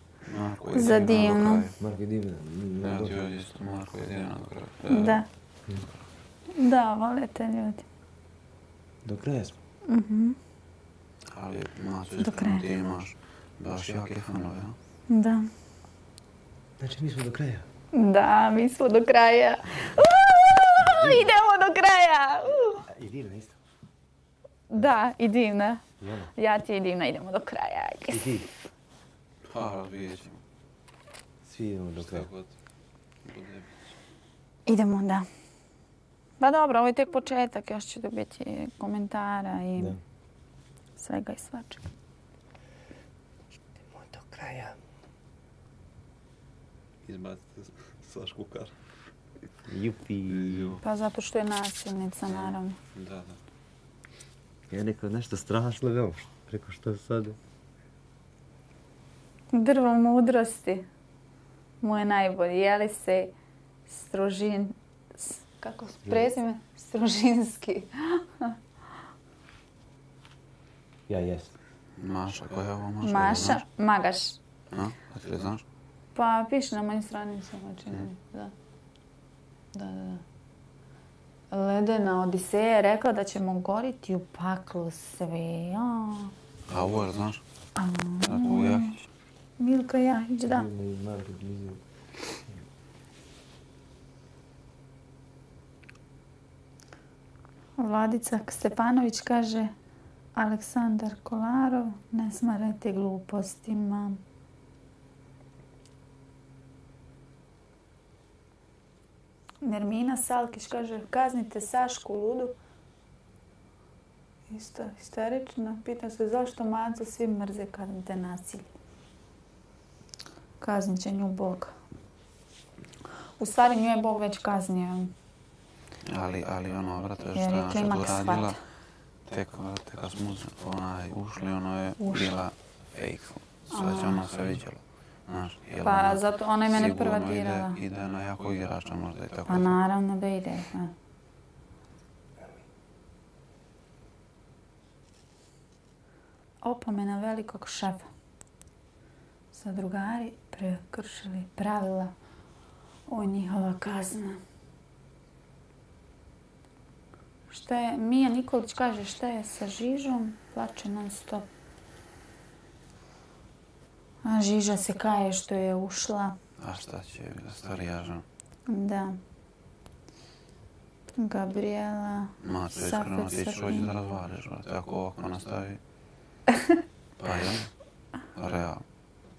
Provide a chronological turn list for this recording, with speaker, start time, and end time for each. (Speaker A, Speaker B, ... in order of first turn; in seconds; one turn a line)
Speaker A: 0.2-1.8
Speaker B: 0.7-1.7
Speaker C: 1.8-3.2
Speaker A: 2.8-5.2
Speaker B: 4.9-5.2
Speaker B: 6.5-7.8
Speaker C: 9.1-9.6
Speaker B: 9.9-10.4
Speaker A: 11.3-14.8
Speaker B: 12.2-12.6
Speaker B: 15.1-15.5
Speaker C: 16.8-17.6
Speaker B: 17.9-22.8
Speaker C: 20.8-21.3
Speaker C: 22.9-23.6
Speaker B: 24.7-25.8
Speaker C: 26.0-26.3
Speaker B: 26.4-28.3
Speaker C: 28.1-28.5
Speaker A: 29.4-30.4
Speaker C: 31.4-32.3
Speaker A: 32.0-32.5
Speaker A: 33.2-33.7
Speaker B: 34.6-35.2
Speaker B: 36.4-40.0
Speaker B: 41.0-41.8
Speaker C: 43.9-44.8
Speaker A: 47.0-48.7
Speaker C: 49.6-50.8
Speaker A: 50.3-50.8
Speaker B: 50.8-52.8
Speaker A: 52.3-53.4
Speaker C: 54.7-57.4
Speaker B: 59.5-60.9
Speaker B: 61.8-63.4
Speaker B: 63.9-68.5
Speaker C: 66.1-66.3
Speaker C: 71.1-71.5
Speaker A: 72.0-73.6
Speaker B: 73.0-74.4
Speaker A: 74.7-75.6
Speaker B: 76.1-78.5
Speaker B: 79.7-80.2
Speaker B: 81.5-86.3
Speaker A: 86.7-87.4
Speaker B: 87.8-88.9
Speaker A: 88.2-89.1
Speaker B: 89.6-90.7
Speaker C: 90.5-91.8
Speaker B: 97.8-99.7
Speaker B: 100.3-104.2
Speaker B: 109.6-112.6
Speaker B: 114.5-118.7
Speaker B: 120.6-121.7
Speaker B: 123.4-125.1
Speaker A: 126.1-128.6
Speaker B: 127.3-128.6
Speaker A: 129.3-139.8
Speaker B: 132.0-132.3
Speaker B: 133.7-134.2
Speaker B: 135.8-137.8
Speaker B: 139.4-140.9
Speaker B: 146.6-148.1
Speaker B: 149.5-152.1
Speaker B: 153.1-154.4
Speaker B: 157.5-161.5
Speaker B: 164.2-166.4
Speaker A: 166.6-168.2
Speaker B: 168.7-169.2
Speaker B: 171.1-173.9
Speaker A: 172.4-175.8
Speaker A: 177.2-177.7
Speaker A: 178.3-178.8